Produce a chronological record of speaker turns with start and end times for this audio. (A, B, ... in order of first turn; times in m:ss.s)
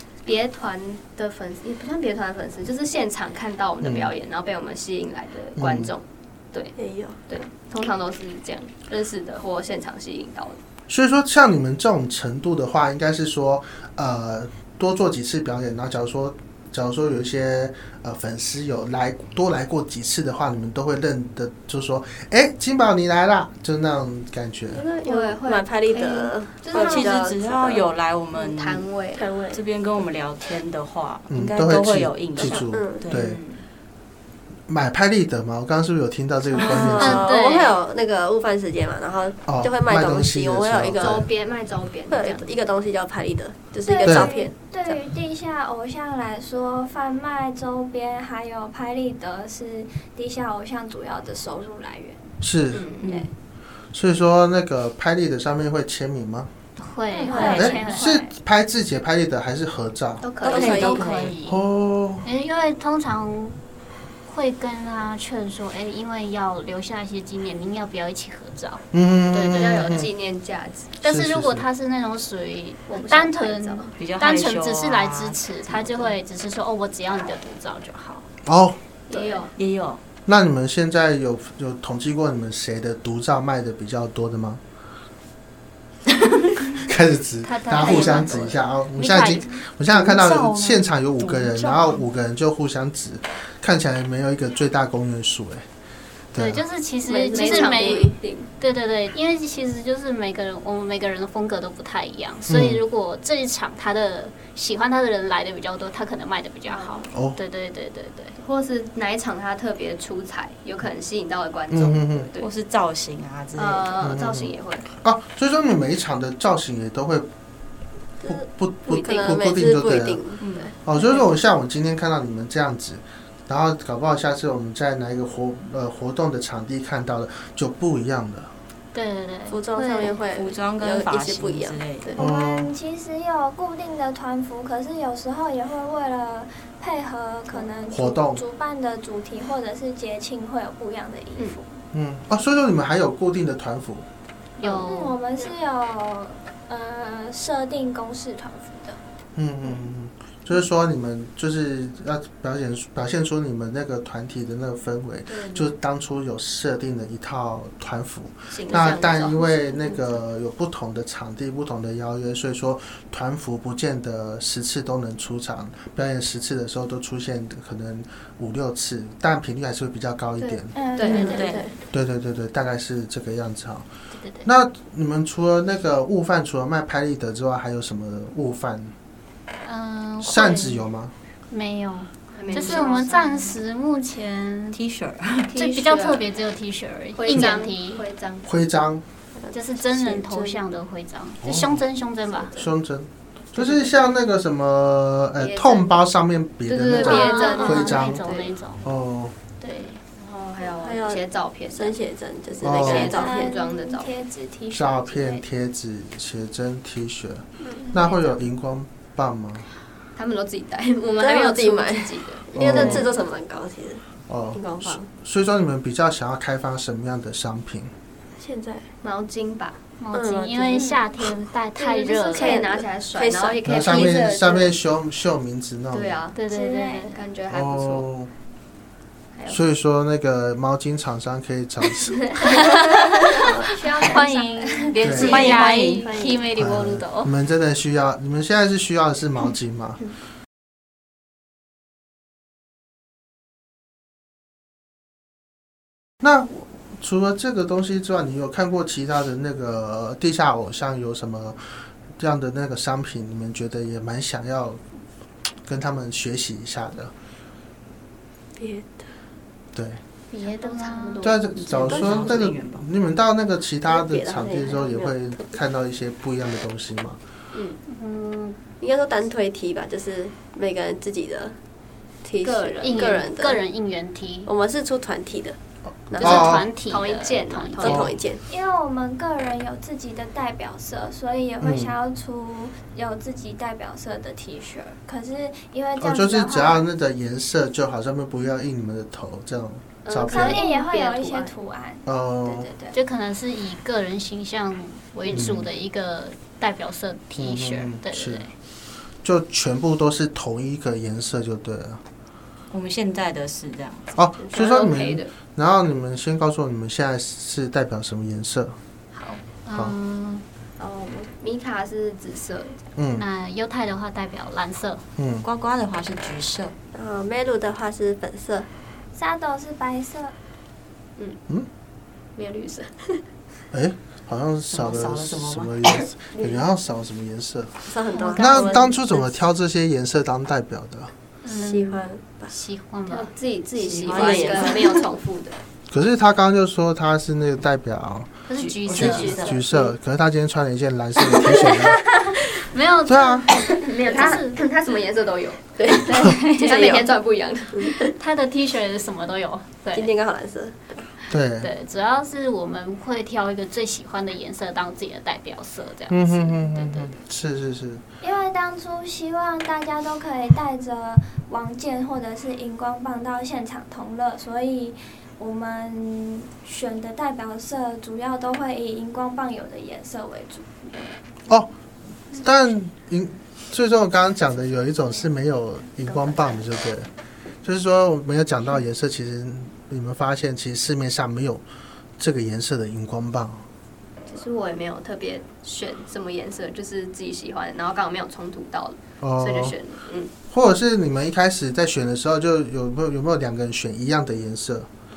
0:00.2-0:06.8 A
0:03.8-0:04.1 B
0:05.6-0:05.9 B
0:06.8-0:07.2 C
0:07.3-0:10.6 A
0:10.9-0:24.8 B
0:24.7-0:27.8 C
0:25.0-0:27.3 A
0:26.7-0:28.9 D
0:28.4-0:29.3 A
0:29.2-0:29.6 C
0:29.5-0:33.6 D
0:31.3-0:33.4 B
0:32.4-0:33.1 C
0:34.7-0:37.3 B
0:36.5-0:41.3 C
0:36.6-0:37.8 E
0:39.5-0:41.3 B
0:41.0-0:42.6 A
0:42.1-0:45.0 C
0:43.8-0:52.3 F
0:44.0-0:44.3 B
0:52.4-0:52.9 B
0:52.7-0:53.3 A
0:53.0-0:53.3 D
0:53.9-0:56.5 B
0:56.8-0:58.2 E
0:57.3-0:57.6 A
0:57.3-0:57.9 D
0:57.3-0:58.1 F
0:57.5-1:00.3 B
1:00.2-1:01.2 A
1:00.4-1:01.3 C
1:00.5-1:01.4 D
1:00.6-1:01.6 E
1:01.5-1:02.2 B
1:02.2-1:03.6 E
1:04.3-1:10.0 E
1:08.9-1:10.1 B
1:09.4-1:11.0 A
1:11.0-1:18.3 E
1:11.0-1:11.7 B
1:12.9-1:13.9 A
1:14.0-1:16.1 D
1:18.5-1:18.8 B
1:19.1-1:19.5 A
1:19.1-1:19.4 E
1:19.6-1:20.0 D
1:20.3-1:24.6 B
1:26.8-1:35.7 B
1:27.4-1:29.6 E
1:29.9-1:32.0 D
1:36.3-1:36.6 B
1:36.4-1:48.4 E
1:37.1-1:38.2 C
1:37.3-1:38.5 A
1:42.5-1:42.8 B
1:46.7-1:47.0 A
1:47.1-1:47.4 B
1:48.4-1:52.5 A
1:51.7-1:52.3 B
1:52.4-1:54.0 D
1:53.6-1:54.9 A
1:54.0-1:57.3 B
1:58.2-2:00.7 C
1:58.3-2:00.2 B
2:00.4-2:00.7 D
2:00.8-2:08.5 B
2:08.9-2:10.2 E
2:09.5-2:12.3 C
2:10.3-2:12.1 D
2:12.2-2:21.8 F
2:12.2-2:12.7 B
2:17.9-2:18.4 B
2:21.9-2:24.0 B
2:24.6-2:25.2 E
2:24.6-2:29.0 F
2:29.4-2:50.7 B
2:35.3-2:35.7 E
2:38.5-2:40.0 A
2:50.4-2:51.5 A
2:50.7-2:51.6 F
2:51.0-2:51.7 D
2:51.0-2:51.7 C
2:51.9-2:53.9 B
2:54.1-2:54.5 E
2:54.4-2:58.9 B
2:59.6-3:00.8 E
3:00.2-3:01.1 B
3:01.5-3:04.8 E
3:02.4-3:03.5 A
3:04.7-3:05.5 D
3:05.5-3:06.3 A
3:05.6-3:08.0 E
3:07.2-3:08.5 A
3:08.4-3:09.0 B
3:09.4-3:10.6 C
3:09.5-3:12.6 E
3:11.4-3:11.8 B
3:12.6-3:18.2 B
3:15.4-3:16.0 A
3:16.7-3:18.5 A
3:17.0-3:18.9 E
3:18.8-3:19.4 B
3:19.6-3:20.0 E
3:20.0-3:22.0 A
3:20.8-3:23.6 C
3:22.6-3:23.2 B
3:22.6-3:24.1 A
3:22.9-3:25.4 F
3:24.7-3:29.7 B
3:30.2-3:33.1 A
3:31.2-3:34.0 C
3:32.5-3:33.1 B
3:34.3-3:37.9 B
3:34.6-3:35.1 C
3:38.4-3:38.9 C
3:39.0-3:39.8 A
3:40.0-3:42.7 E
3:40.1-3:41.0 C
3:41.8-3:44.8 A
3:42.3-3:44.2 C
3:43.6-3:46.2 B
3:45.9-3:46.4 A
3:46.4-3:47.2 E
3:46.5-3:47.2 F
3:47.1-3:48.1 A
3:47.5-3:48.3 B
3:49.3-3:49.6 A
3:49.5-3:52.2 B
3:52.4-3:57.3 E
3:53.6-3:55.2 F
3:55.0-3:55.4 B
3:55.2-3:56.2 D
3:55.2-3:56.3 A
3:56.6-4:00.0 B
4:06.2-4:14.8 B
4:15.7-4:17.1 B
4:18.6-4:19.1 C
4:19.8-4:20.0 B
4:20.3-4:21.3 A
4:20.4-4:21.4 E
4:21.2-4:27.2 B
4:21.6-4:22.8 D
4:21.9-4:22.3 C
4:23.9-4:25.6 C
4:27.9-4:28.6 E
4:28.8-4:31.6 C
4:32.2-4:33.6 C
4:32.4-4:33.2 A
4:32.8-4:34.5 E
4:34.5-4:35.6 C
4:36.1-4:36.6 B
4:36.1-4:36.6 C
4:36.2-4:38.0 E
4:36.4-4:38.1 A
4:37.8-4:38.4 C
4:37.8-4:38.1 B
4:38.5-4:46.9 F
4:41.6-4:41.9 B
4:46.0-4:50.6 B
4:50.0-4:51.5 A
4:50.3-4:52.1 F
4:52.1-4:52.7 B
4:52.6-4:52.9 A
4:52.9-4:58.5 E
4:55.3-4:55.7 B
4:57.4-4:58.5 B
4:59.2-5:02.0 B
5:02.7-5:04.2 D
5:04.2-5:08.8 B
5:04.4-5:05.3 A
5:09.1-5:10.4 E
5:10.8-5:12.8 A
5:13.0-5:13.2 B
5:13.2-5:15.0 E
5:15.2-5:15.4 B
5:15.4-5:16.8 D
5:16.9-5:18.7 C
5:19.1-5:20.3 F
5:22.4-5:23.2 A
5:23.7-5:27.8 B
5:24.7-5:26.1 D
5:27.8-5:29.3 C
5:28.1-5:29.0 E
5:28.4-5:31.1 B
5:31.4-5:33.3 E
5:31.5-5:32.5 C
5:33.1-5:35.6 A
5:33.8-5:35.0 D
5:34.1-5:35.0 C
5:35.9-5:38.3 B
5:38.5-5:39.5 E
5:38.6-5:39.6 D
5:38.9-5:42.0 B
5:39.0-5:39.5 A
5:41.7-5:44.6 E
5:43.1-5:43.5 B
5:43.8-5:47.8 A
5:44.0-5:44.4 C
5:45.8-5:47.0 C
5:46.0-5:47.1 E
5:47.7-5:48.1 C
5:47.9-5:50.1 E
5:49.9-5:51.1 C
5:51.3-5:51.7 B
5:51.6-5:57.2 E
5:56.1-5:58.0 B
5:58.2-6:11.1 F
6:12.3-6:17.1 B
6:16.2-6:16.4 A
6:17.6-6:21.6 B
6:22.2-6:23.6 B
6:24.3-6:30.3 A
6:29.2-6:29.8 B
6:30.5-6:34.9 B